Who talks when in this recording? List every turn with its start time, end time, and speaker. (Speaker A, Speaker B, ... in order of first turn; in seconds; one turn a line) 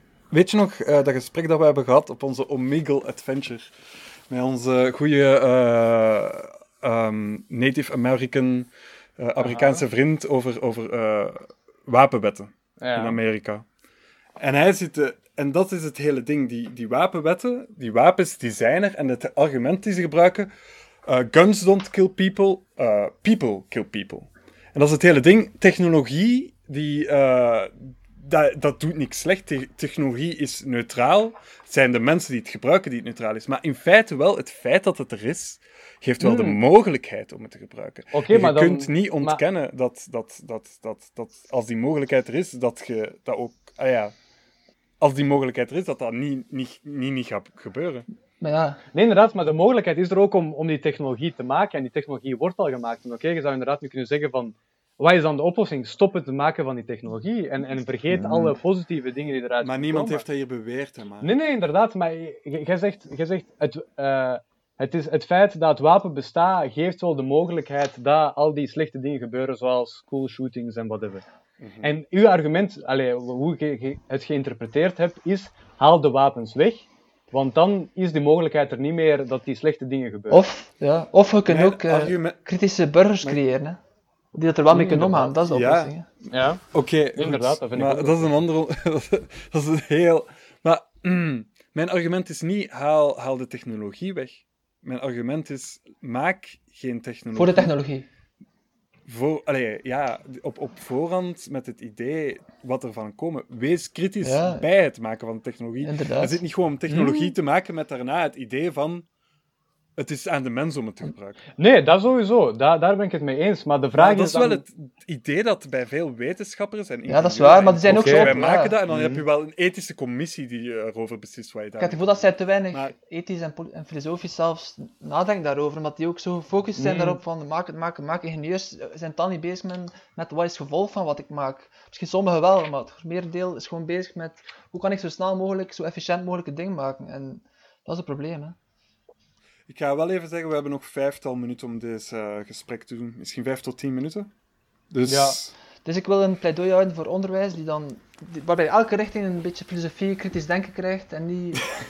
Speaker A: 0.3-3.7
Speaker A: 4.3-13.7
Speaker B: 9.4-9.8
Speaker B: 12.8-13.2
Speaker A: 14.4-20.5
Speaker A: 21.1-44.1
Speaker B: 36.2-36.6
Speaker B: 38.1-39.4
Speaker A: 45.0-48.1
Speaker C: 48.4-48.8
Speaker B: 48.9-60.2
Speaker A: 58.1-58.5
Speaker A: 59.6-61.3
Speaker B: 61.2-71.2
Speaker A: 71.6-71.9
Speaker B: 71.8-80.4
Speaker C: 80.3-83.8
Speaker A: 81.5-82.4
Speaker C: 84.3-86.1
Speaker B: 84.7-85.3
Speaker A: 85.4-97.7
Speaker B: 86.3-86.6
Speaker B: 87.2-88.3
Speaker C: 97.3-98.1
Speaker A: 99.1-109.1
Speaker C: 104.2-104.7
Speaker C: 105.8-106.4
Speaker B: 106.9-107.3
Speaker A: 110.0-111.4
Speaker B: 111.6-114.6
Speaker A: 114.0-122.9
Speaker C: 117.1-118.8
Speaker B: 117.9-119.2
Speaker C: 121.8-138.6
Speaker B: 126.8-127.2
Speaker A: 139.7-144.3
Speaker A: 144.9-145.5
Speaker B: 145.1-145.4
Speaker C: 145.8-151.7